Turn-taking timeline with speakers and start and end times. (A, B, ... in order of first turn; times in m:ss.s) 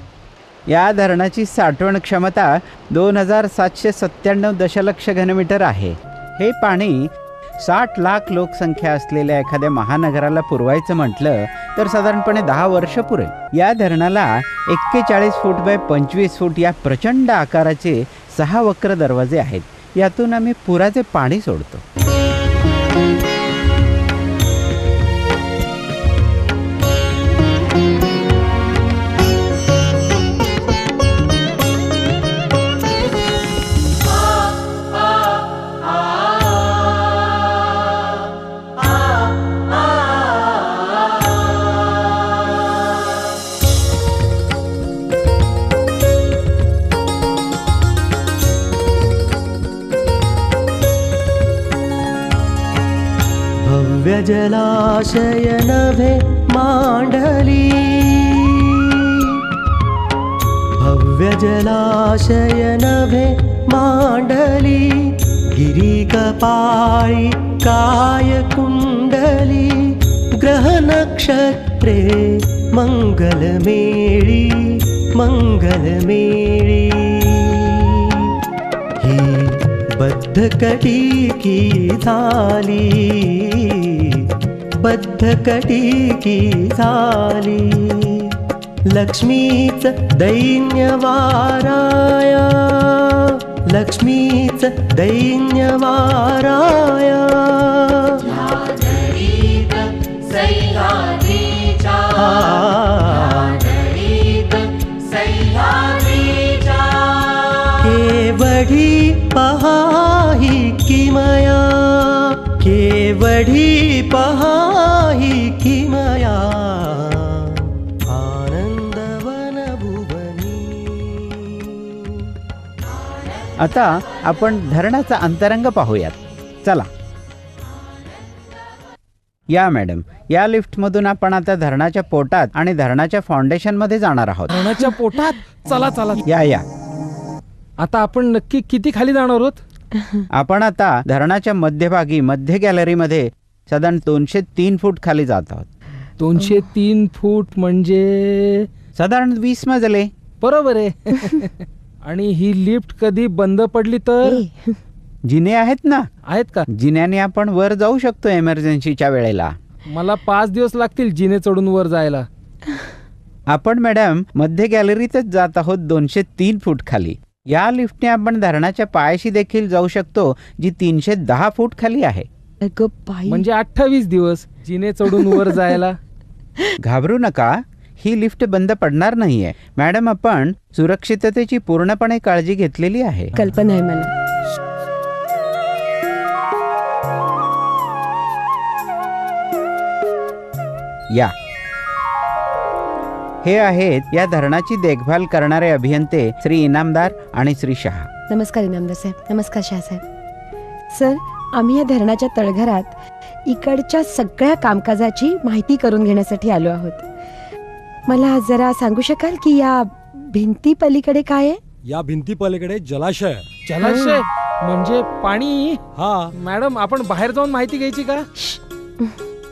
0:00.7-0:21.8 A
0:53.6-0:59.4 B
1:00.8-1:04.9 B
1:05.6-1:18.1 B
1:19.0-1:24.3 B
1:24.8-1:28.4 B
1:28.9-1:39.6 B
1:40.3-1:44.4 B
1:47.7-2:02.1 B
2:03.6-2:06.9 A
2:09.5-2:14.5 A
2:14.5-2:16.2 C
2:16.2-2:16.6 A
2:17.8-2:19.6 C
2:20.3-2:25.7 A
2:26.2-2:28.7 C
2:28.9-2:30.1 A
2:30.4-2:31.5 C
2:32.0-2:34.4 C
2:34.2-2:34.8 D
2:35.2-2:36.1 A
2:36.3-2:36.6 C
2:36.7-2:39.5 A
2:39.9-2:42.2 C
2:43.5-2:52.3 A
2:52.6-2:53.4 D
2:53.3-2:56.0 C
2:55.1-2:55.7 D
2:56.8-3:03.4 A
3:03.4-3:04.1 D
3:13.4-3:18.1 A
3:18.3-3:20.0 D
3:20.9-3:22.9 D
3:23.4-3:27.0 D
3:28.1-3:31.6 D
3:31.9-3:33.5 E
3:33.6-3:35.8 C
3:33.8-3:34.2 D
3:36.0-3:36.3 E
3:36.4-3:38.2 C
3:38.4-3:39.2 D